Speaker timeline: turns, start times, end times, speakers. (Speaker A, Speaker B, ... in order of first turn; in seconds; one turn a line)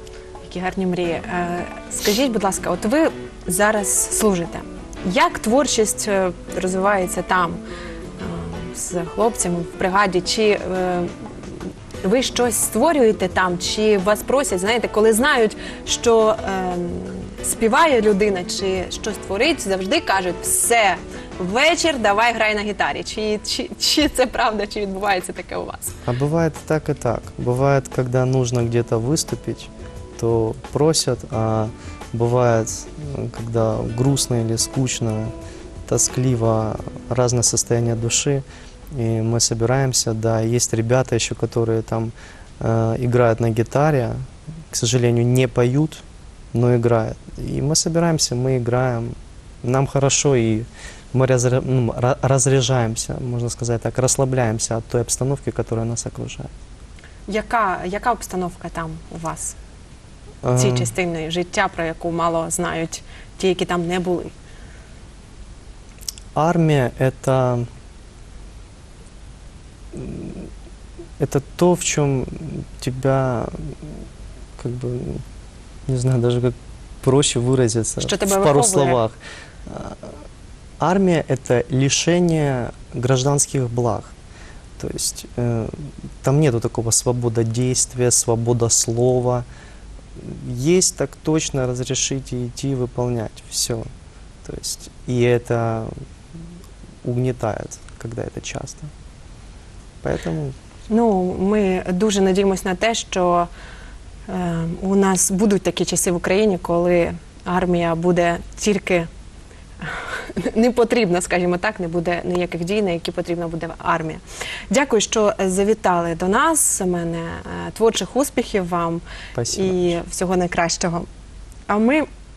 Speaker A: 0.4-7.6
Speaker A: 8.2-11.5
Speaker A: 12.0-25.9
Speaker B: 26.1-35.3
Speaker B: 35.9-44.2
Speaker B: 44.7-56.5
Speaker A: 57.3-59.6
Speaker B: 60.4-60.9
Speaker A: 60.5-64.3
Speaker B: 66.3-67.7
Speaker B: 69.9-70.5
Speaker B: 71.2-73.9
Speaker B: 74.6-75.2
Speaker B: 75.9-80.2
Speaker A: 78.0-79.0
Speaker B: 80.8-84.1
Speaker B: 84.8-89.5
Speaker B: 90.2-93.9
Speaker B: 94.4-95.9
Speaker B: 97.0-98.9
Speaker B: 100.0-100.5
Speaker A: 100.9-103.5
Speaker A: 104.3-109.1
Speaker A: 109.8-121.0
Speaker B: 119.3-120.0
Speaker A: 121.7-122.1